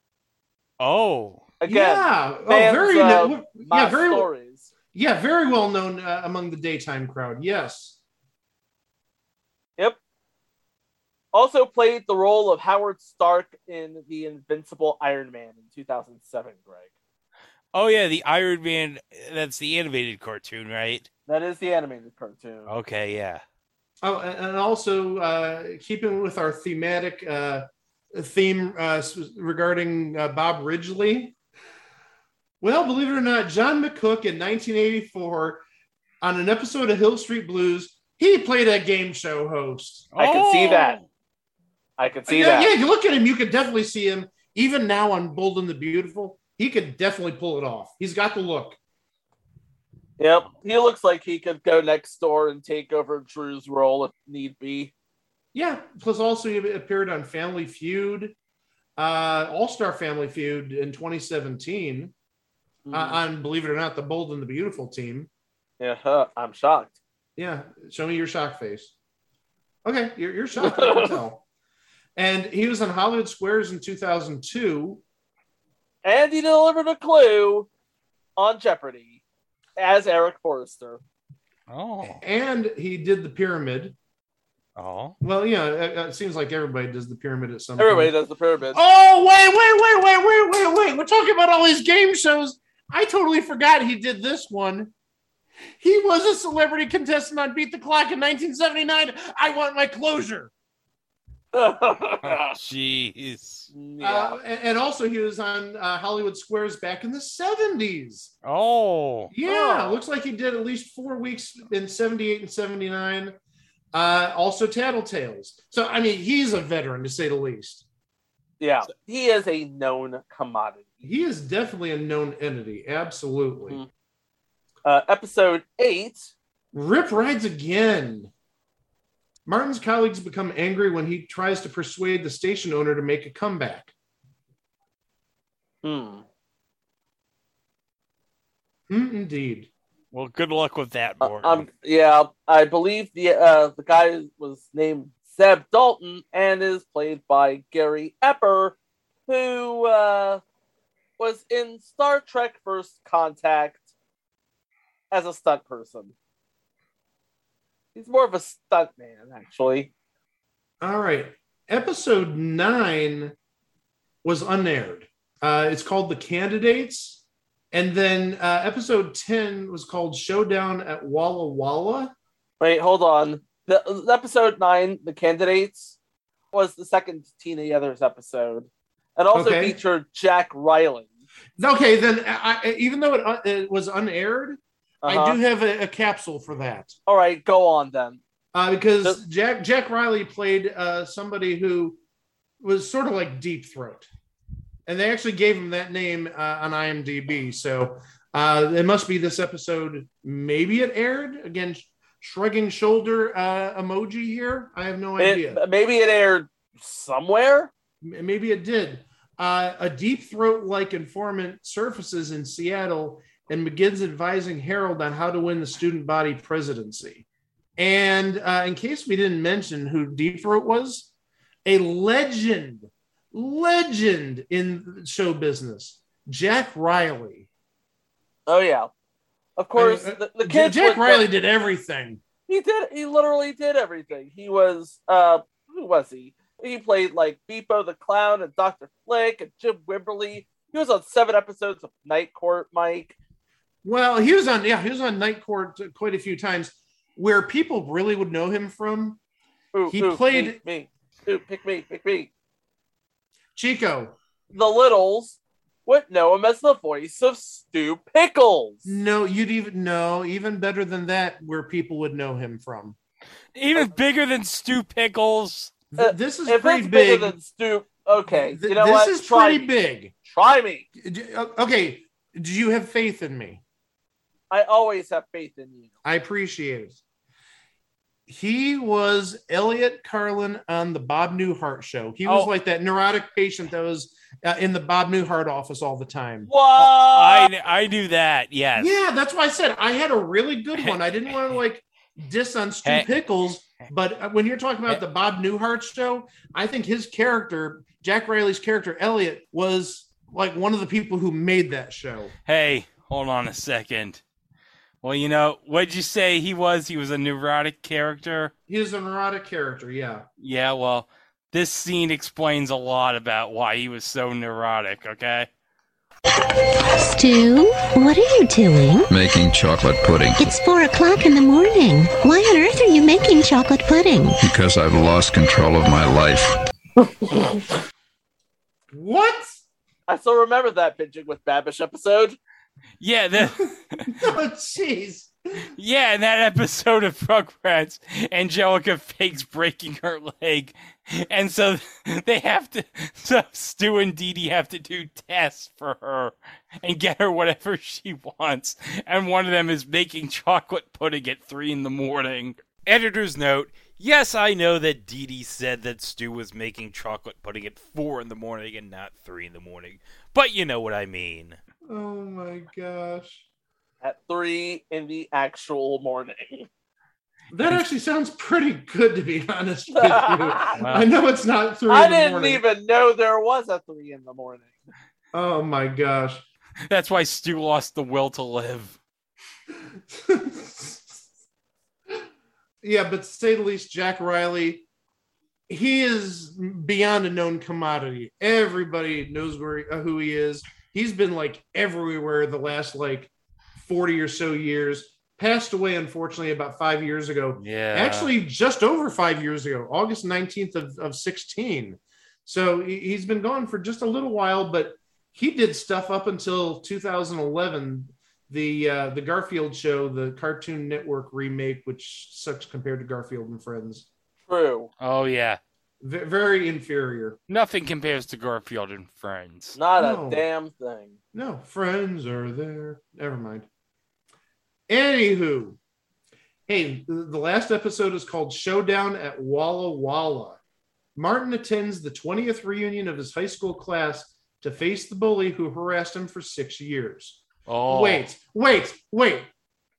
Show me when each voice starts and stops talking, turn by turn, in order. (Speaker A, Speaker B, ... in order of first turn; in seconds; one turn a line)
Speaker A: 0.8-1.5
Speaker B: 1.6-4.7
Speaker C: 1.6-4.3
Speaker C: 4.9-8.0
Speaker B: 11.3-16.9
Speaker A: 17.7-21.1
Speaker B: 21.3-22.7
Speaker A: 22.7-23.4
Speaker C: 24.0-31.4
Speaker C: 32.6-35.6
Speaker C: 36.2-40.1
Speaker A: 40.1-41.0
Speaker B: 40.2-41.0
Speaker B: 42.0-42.7
Speaker C: 42.3-48.8
Speaker B: 50.2-54.9
Speaker C: 55.5-58.3
Speaker C: 59.0-62.1
Speaker B: 62.9-63.2
Speaker C: 62.9-65.3
Speaker B: 65.8-67.0
Speaker C: 67.3-68.9
Speaker C: 69.8-71.4
Speaker B: 70.6-71.2
Speaker C: 72.2-75.0
Speaker B: 76.0-77.7
Speaker B: 78.4-79.2
Speaker B: 79.8-81.0
Speaker A: 81.7-82.2
Speaker C: 82.0-84.0
Speaker A: 84.8-85.2
Speaker C: 85.2-88.1
Speaker B: 87.8-88.8
Speaker C: 88.7-94.9
Speaker C: 95.8-100.5
Speaker B: 101.5-102.5
Speaker A: 102.2-103.7
Speaker B: 103.7-104.4
Speaker C: 104.0-108.3
Speaker A: 108.4-109.3
Speaker C: 109.3-113.3
Speaker B: 109.4-110.0
Speaker C: 113.9-117.8
Speaker B: 118.6-120.8
Speaker C: 121.0-123.8
Speaker B: 124.8-126.3
Speaker C: 126.7-128.3
Speaker C: 129.4-133.9
Speaker B: 135.8-136.2
Speaker C: 138.9-139.7
Speaker A: 140.1-141.7
Speaker B: 141.2-148.8
Speaker B: 149.3-150.4
Speaker B: 151.2-153.9
Speaker B: 155.1-156.1
Speaker B: 157.9-159.9
Speaker C: 160.8-163.3
Speaker C: 164.2-172.1
Speaker B: 172.6-176.0
Speaker B: 176.5-181.1
Speaker C: 179.3-179.8
Speaker C: 181.6-186.9
Speaker B: 185.0-185.4
Speaker B: 187.1-188.2
Speaker C: 188.5-192.0
Speaker C: 192.6-194.1
Speaker C: 194.8-205.6
Speaker B: 205.2-207.7
Speaker C: 208.0-217.2
Speaker C: 217.8-221.1
Speaker C: 221.6-227.5
Speaker B: 228.5-228.9
Speaker B: 229.6-231.2
Speaker C: 229.8-232.2
Speaker B: 232.5-243.1
Speaker C: 243.8-249.2
Speaker B: 249.7-252.3
Speaker C: 249.9-250.6
Speaker C: 253.5-254.1
Speaker B: 254.5-258.9
Speaker C: 258.8-262.9
Speaker A: 263.6-265.7
Speaker C: 265.9-267.4
Speaker B: 266.0-269.7
Speaker C: 268.3-270.1
Speaker B: 270.2-270.9
Speaker C: 271.0-273.6
Speaker B: 274.5-275.9
Speaker C: 276.0-277.0
Speaker C: 278.3-286.5
Speaker B: 286.5-287.5
Speaker A: 286.8-288.9
Speaker C: 288.8-302.3
Speaker A: 292.8-293.1
Speaker A: 302.4-304.2
Speaker A: 305.0-308.5
Speaker C: 308.7-310.2
Speaker A: 310.4-315.5
Speaker D: 316.8-319.1
Speaker E: 319.1-320.5
Speaker D: 320.4-324.4
Speaker E: 324.4-326.5
Speaker C: 328.9-329.6
Speaker B: 330.1-332.4
Speaker A: 333.0-334.2
Speaker C: 334.1-335.3
Speaker A: 335.7-361.6
Speaker C: 361.9-363.4
Speaker B: 364.0-366.7
Speaker C: 367.5-372.6
Speaker B: 369.9-370.8
Speaker A: 370.8-371.1
Speaker B: 371.9-374.8
Speaker C: 375.3-376.4
Speaker A: 376.9-379.0
Speaker C: 379.9-381.2
Speaker C: 382.8-384.9
Speaker C: 385.7-414.1
Speaker A: 397.6-398.3
Speaker B: 414.5-414.9
Speaker A: 415.0-415.6
Speaker C: 416.0-417.4
Speaker A: 417.5-419.8
Speaker B: 419.7-421.1
Speaker C: 420.0-420.4
Speaker C: 421.3-423.7
Speaker C: 424.9-425.8
Speaker C: 426.7-430.6
Speaker C: 431.1-439.5
Speaker A: 437.6-438.2